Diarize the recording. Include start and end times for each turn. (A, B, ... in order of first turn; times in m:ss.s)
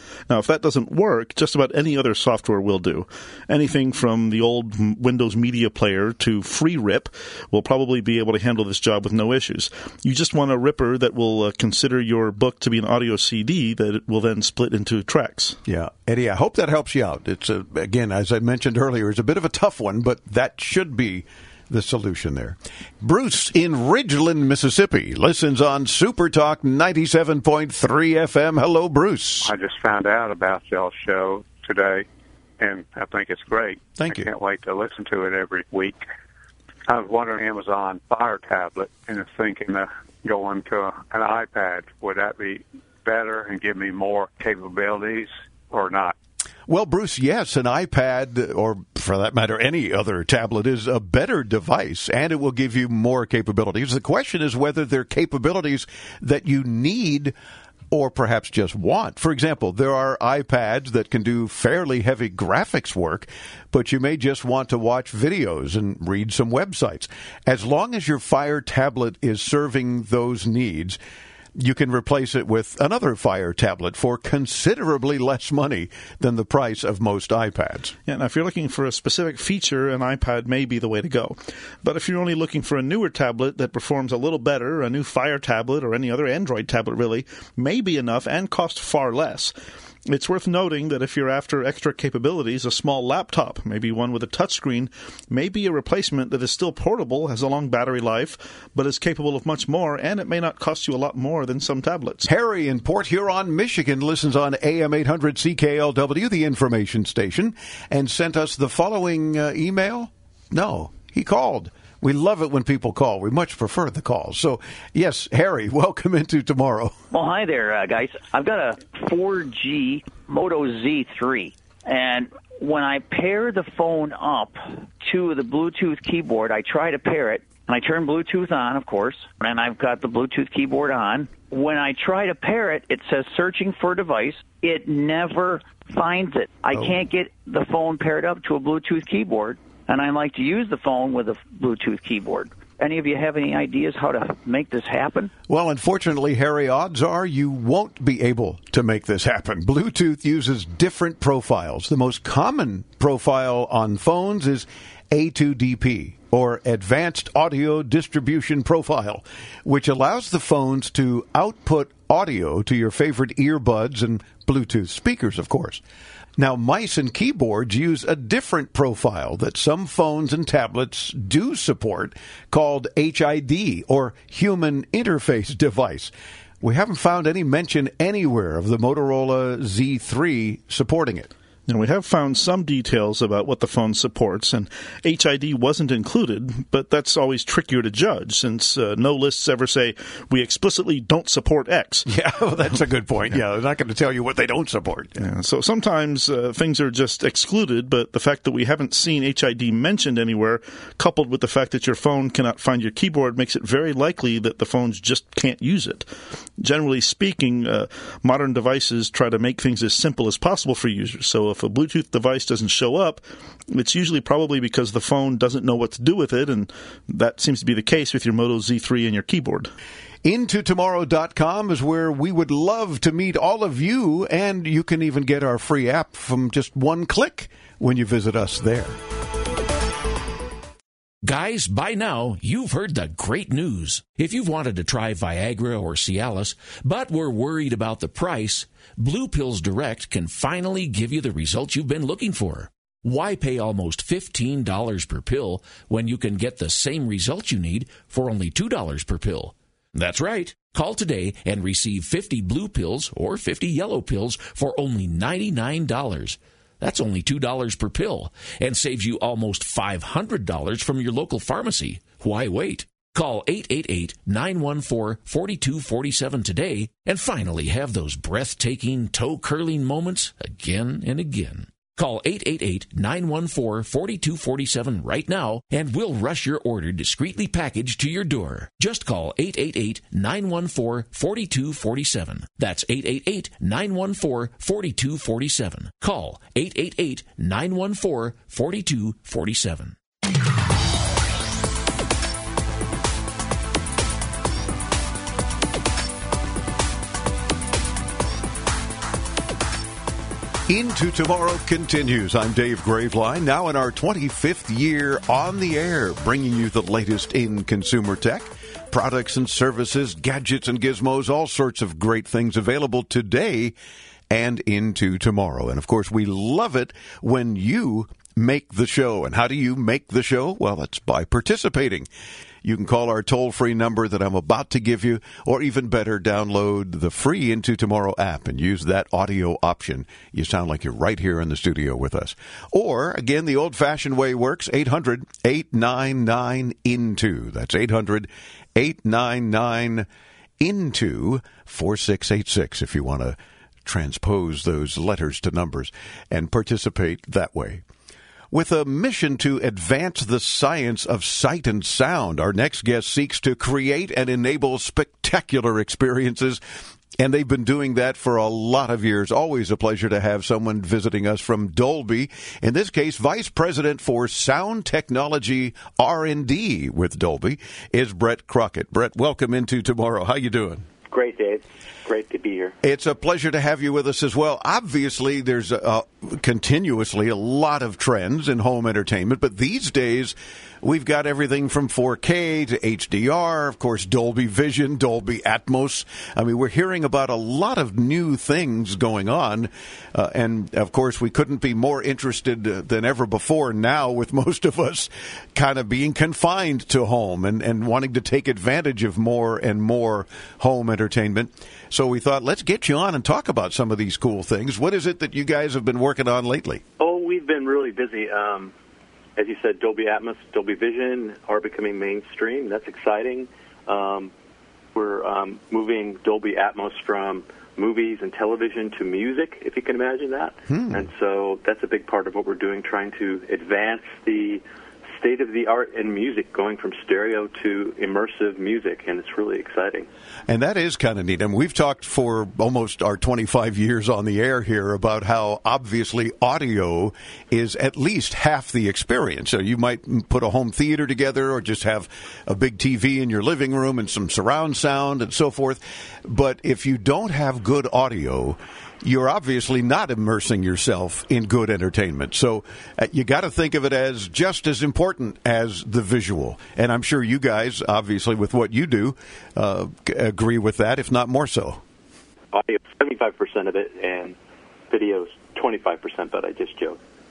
0:00.3-0:15.6 A
0:15.6-0:29.5 B
0:29.4-0:32.0 C
0:32.6-0:36.0 C
0:34.0-0:34.3 B
0:36.9-0:46.1 C
0:46.7-0:57.4 B
0:57.9-1:11.0 B
1:11.5-1:18.0 B
1:18.1-1:29.5 A
1:30.1-1:42.2 A
1:42.2-1:57.0 B
1:57.1-2:25.3 D
2:25.5-2:45.8 B
2:46.4-3:01.3 B
3:01.7-3:12.1 A
3:12.1-3:15.2 B
3:15.2-3:26.1 A
3:26.6-3:39.7 A
3:40.2-3:49.0 B
3:51.2-4:50.0 E
5:00.7-5:13.7 B
5:14.3-5:22.1 B
5:22.6-5:40.1 B
5:40.6-5:47.8 B
5:48.5-5:56.6 B
5:57.2-6:10.9 B
6:11.1-6:12.7 F
6:12.8-6:46.8 B
6:47.0-6:48.7 F
6:49.4-6:54.3 F
6:54.9-7:04.6 F
7:00.7-7:01.1 B
7:05.1-7:10.1 F
7:10.5-7:41.8 B
7:42.5-7:44.4 F
7:44.9-7:47.0 F